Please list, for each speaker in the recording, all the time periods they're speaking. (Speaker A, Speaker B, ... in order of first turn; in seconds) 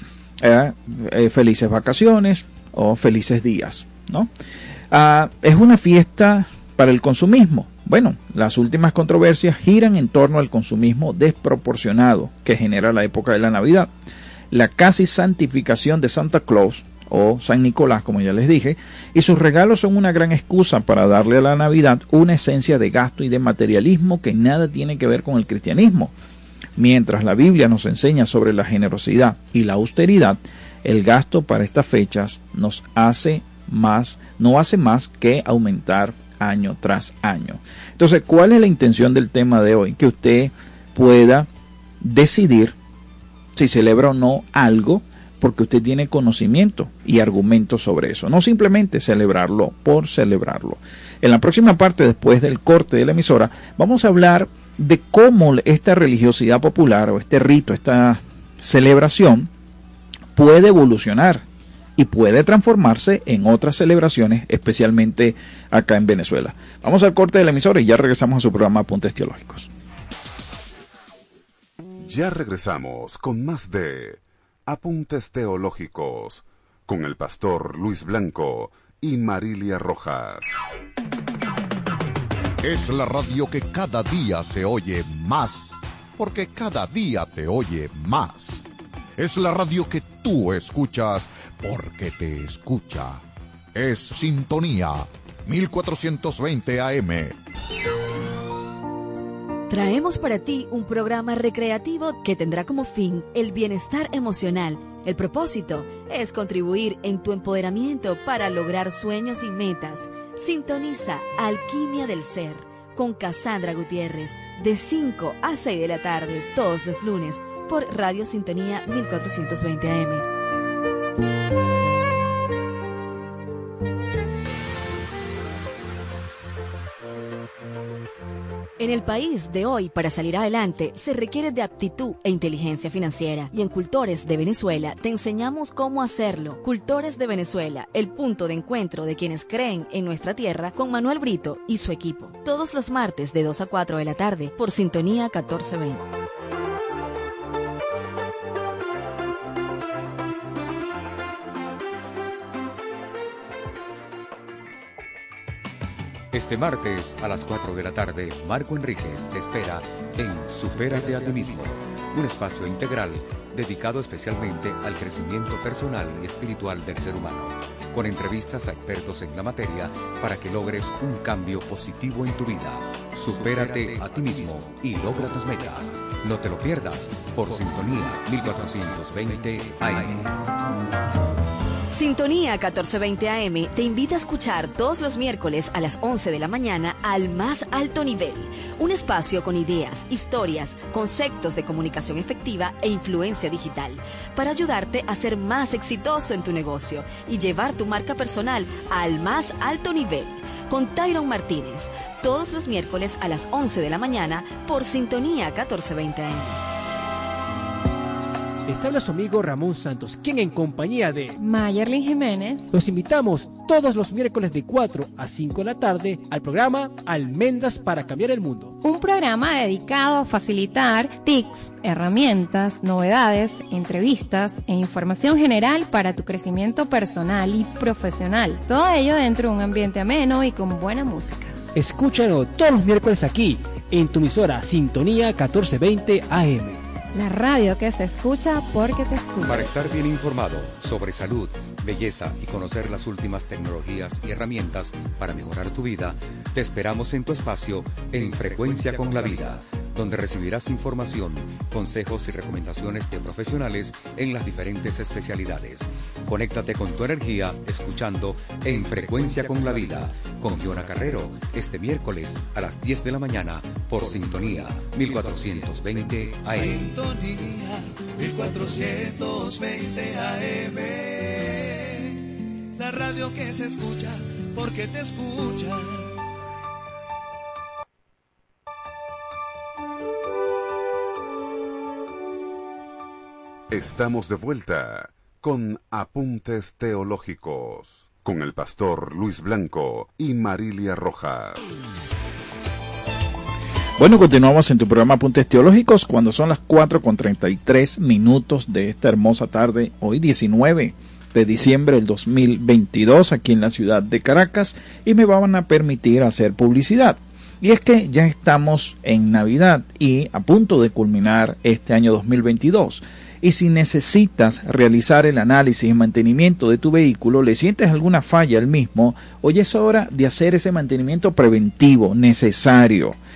Speaker A: 0.4-4.3, 4.9-13.9, 14.5-26.1, 26.8-41.5, 42.0-42.8, 43.5-59.5, 60.4-61.4, 62.0-69.7, 294.0-323.2
Speaker B: 72.0-80.6, 283.7-291.7
Speaker C: 82.6-88.6, 89.2-93.2, 93.8-97.3
Speaker D: 99.7-120.3, 128.8-146.0, 181.9-206.6
Speaker E: 156.3-180.3, 239.4-266.8
Speaker F: 208.7-211.3, 212.7-218.8, 231.8-236.8
Speaker G: 211.4-212.7, 218.8-231.6, 237.1-239.7
Speaker H: 266.5-272.2, 272.8-276.1